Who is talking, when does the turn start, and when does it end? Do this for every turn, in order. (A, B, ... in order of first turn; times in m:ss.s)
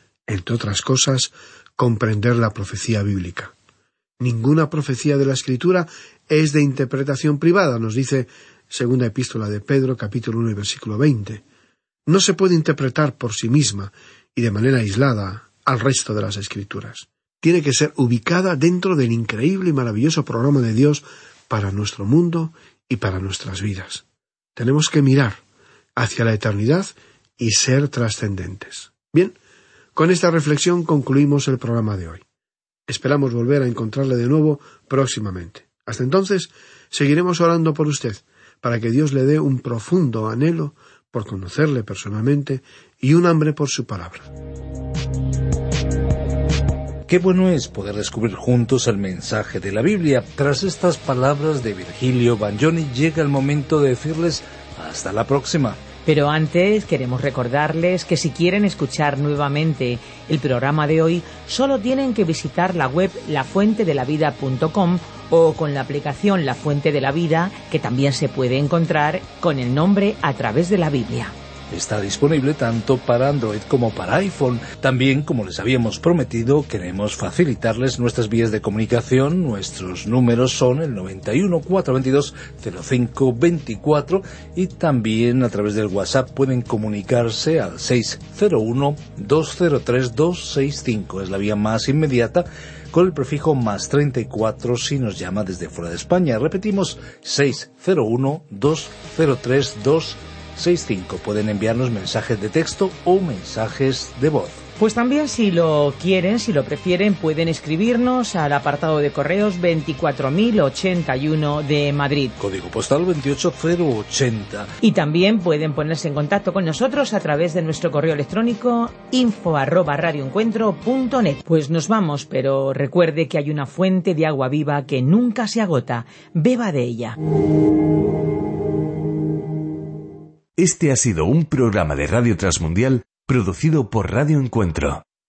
0:00.3-0:03.5 A
0:04.2-0:11.4 A
0:12.1-0:24.0 A
0:24.6-0:25.4 A
0:26.0-0:29.4 A
0:30.0-0:32.2 A
0:32.9-0:44.3 A
0:47.1-0:55.8 B
0:56.1-1:11.3 C
1:11.7-1:44.6 B
1:44.8-1:52.4 C
1:52.4-1:54.7 B
1:54.8-2:07.2 C
2:10.6-2:15.0 D